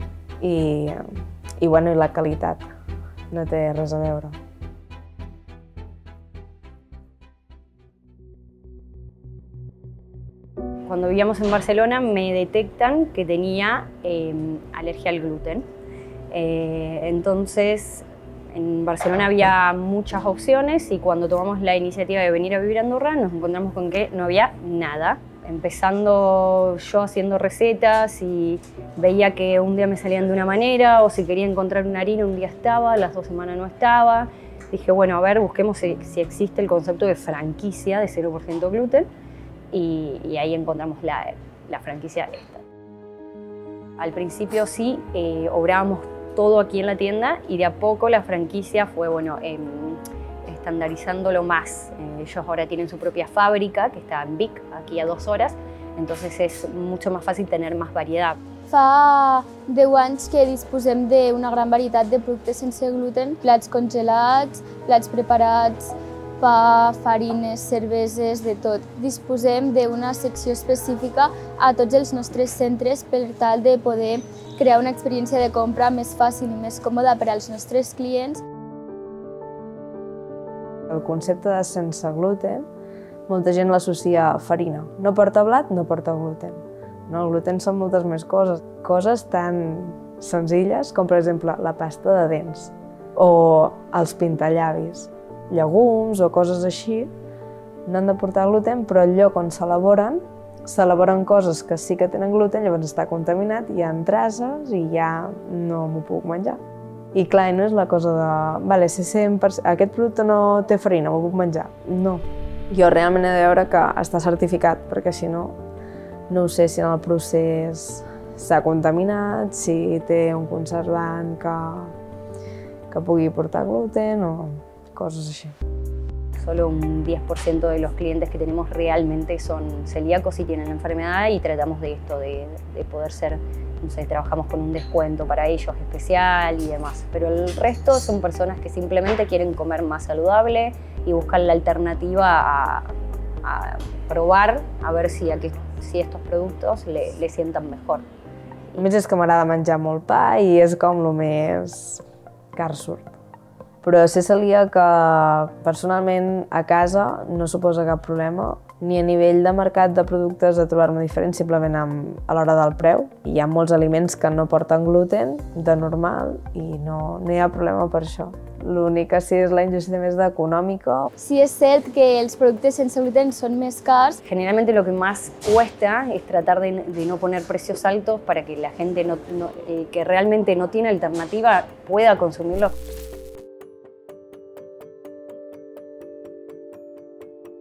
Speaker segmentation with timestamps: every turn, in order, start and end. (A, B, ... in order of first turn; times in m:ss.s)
0:00.4-0:02.7 A
0:03.3-0:04.4 A
0:10.8-0:15.7 B
0:16.3-0:39.1 B
0:39.7-0:42.6 B
0:44.0-0:58.4 B
0:58.7-1:18.4 C
1:20.9-1:22.7 A
1:23.3-1:37.1 A
1:37.9-1:46.6 A
1:47.1-1:55.6 A
1:56.3-2:02.0 A
2:02.9-2:05.6 A
2:06.4-2:28.0 B
2:28.8-2:33.2 A
2:33.8-2:51.1 A
2:51.2-2:54.2 C
2:54.2-3:02.7 B